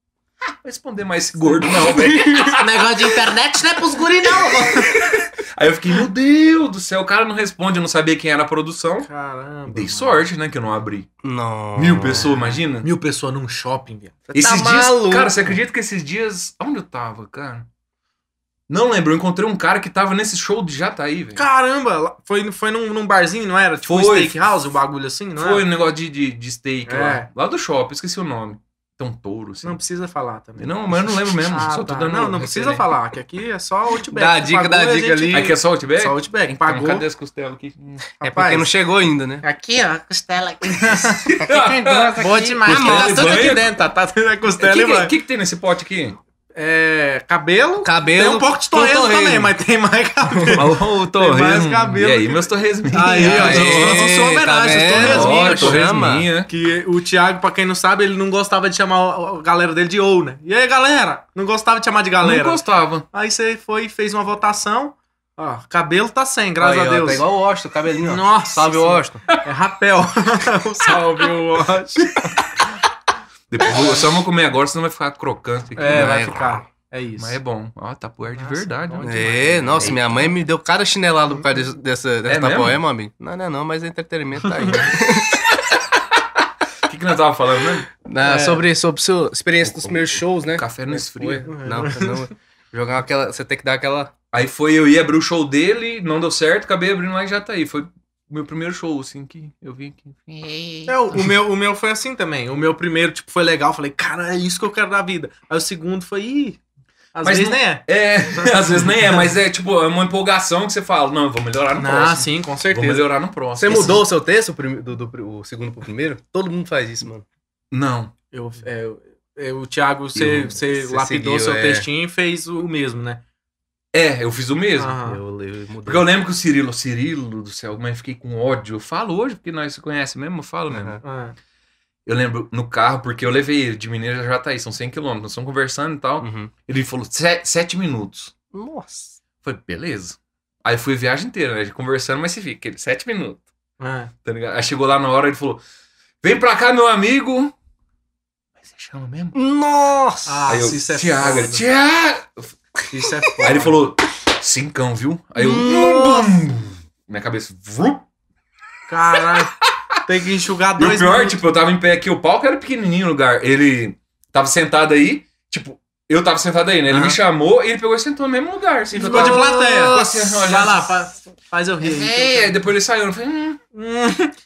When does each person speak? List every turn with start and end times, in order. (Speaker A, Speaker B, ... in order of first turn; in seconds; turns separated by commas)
Speaker A: 0.6-3.1, Speaker B: 2.0-2.4, Speaker C: 2.5-4.9, Speaker A: 4.2-9.1, Speaker D: 9.1-10.2, Speaker A: 9.7-11.1, Speaker B: 11.2-12.4, Speaker A: 11.8-12.9, Speaker D: 12.2-14.2, Speaker A: 14.3-17.7, Speaker B: 14.3-15.5, Speaker A: 18.7-21.4, Speaker D: 21.4-25.6, Speaker A: 23.8-24.4, Speaker A: 25.4-29.8, Speaker D: 26.9-27.3, Speaker D: 29.6-37.1, Speaker A: 30.6-32.9, Speaker B: 34.1-35.5, Speaker A: 35.3-38.0, Speaker D: 38.2-38.7, Speaker B: 38.2-39.4, Speaker C: 39.4-43.7, Speaker D: 40.7-41.2, Speaker A: 41.3-43.7, Speaker D: 42.2-45.1, Speaker A: 44.6-46.2, Speaker D: 46.5-55.8, Speaker B: 47.8-49.5, Speaker A: 50.5-54.0, Speaker B: 53.2-56.3, Speaker A: 55.0-56.5, Speaker D: 56.5-67.2, Speaker A: 62.2-63.1, Speaker B: 66.6-69.3, Speaker D: 68.0-72.5, Speaker A: 73.5-76.3, Speaker D: 73.6-74.1, Speaker D: 75.8-77.4, Speaker B: 75.9-76.6, Speaker A: 77.2-80.2, Speaker D: 78.3-80.2, Speaker B: 79.0-85.5, Speaker A: 82.3-82.8, Speaker D: 84.5-84.8, Speaker A: 86.9-87.9, Speaker B: 87.9-94.1, Speaker D: 88.2-88.6, Speaker A: 89.6-91.5, Speaker D: 91.5-92.3, Speaker A: 94.3-101.0, Speaker D: 100.9-106.6, Speaker D: 107.1-109.3, Speaker A: 107.2-114.0, Speaker D: 111.8-113.1, Speaker B: 113.6-117.2, Speaker A: 117.7-118.1, Speaker D: 118.3-123.2, Speaker A: 120.2-120.5, Speaker B: 120.7-121.9, Speaker A: 123.9-125.0, Speaker D: 124.8-125.2, Speaker B: 125.0-126.1, Speaker A: 125.8-131.0, Speaker B: 130.7-131.0, Speaker D: 131.0-131.4, Speaker A: 132.1-138.3, Speaker B: 136.2-136.5, Speaker B: 138.5-139.2, Speaker A: 139.4-143.4, Speaker D: 143.8-144.1, Speaker A: 144.2-145.6, Speaker A: 146.2-147.5, Speaker A: 148.6-149.3, Speaker B: 149.3-150.5, Speaker D: 150.3-151.7, Speaker A: 150.5-152.6, Speaker D: 152.9-153.8, Speaker A: 153.4-158.1, Speaker B: 155.4-156.4, Speaker D: 158.9-161.4, Speaker A: 159.2-159.7, Speaker A: 160.8-170.9, Speaker B: 166.9-167.2, Speaker B: 168.9-170.3, Speaker D: 169.0-172.7, Speaker A: 171.8-173.6, Speaker D: 173.7-174.3